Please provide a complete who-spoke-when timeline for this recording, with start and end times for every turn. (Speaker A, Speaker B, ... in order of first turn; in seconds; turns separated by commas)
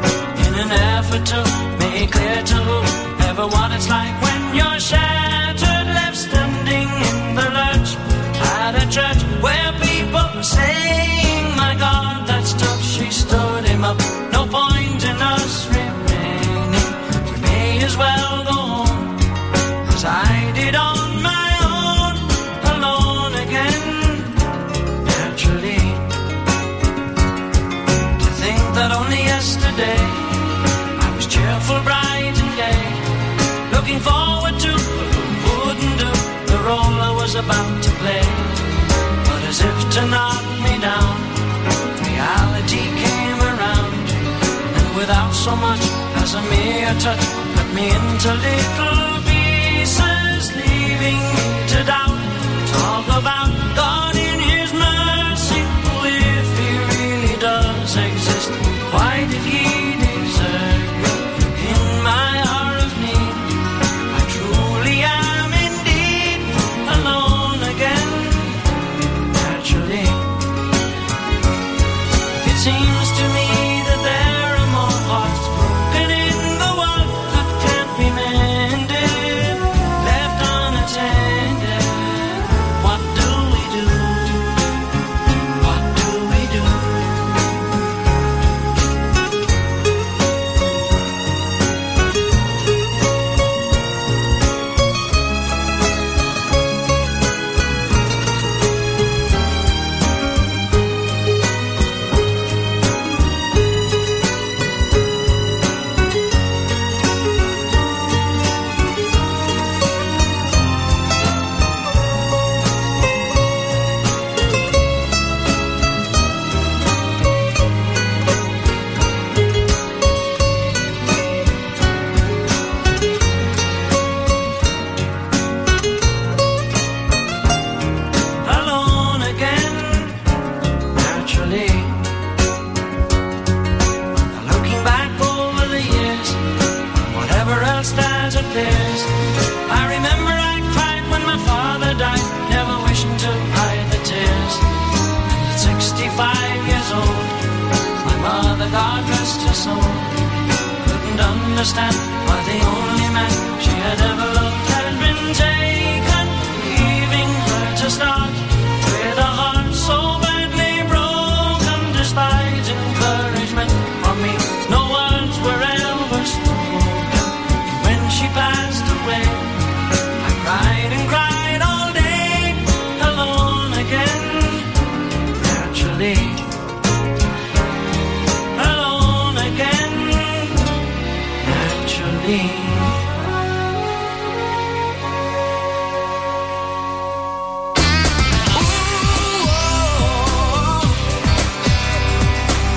Speaker A: 0.3-19.2, Speaker A: 19.8-24.4, Speaker A: 25.0-26.1, Speaker A: 28.2-33.0, Speaker A: 33.7-41.3, Speaker A: 42.0-68.6, Speaker A: 69.2-70.3, Speaker A: 72.4-84.6, Speaker A: 85.6-87.2, Speaker A: 128.4-130.2, Speaker A: 130.9-132.1, Speaker A: 134.3-139.1, Speaker A: 139.7-144.7, Speaker A: 145.2-147.4, Speaker A: 148.0-150.2, Speaker A: 150.8-169.6, Speaker A: 170.2-174.7, Speaker A: 175.3-176.5, Speaker A: 178.5-180.7, Speaker A: 181.4-183.0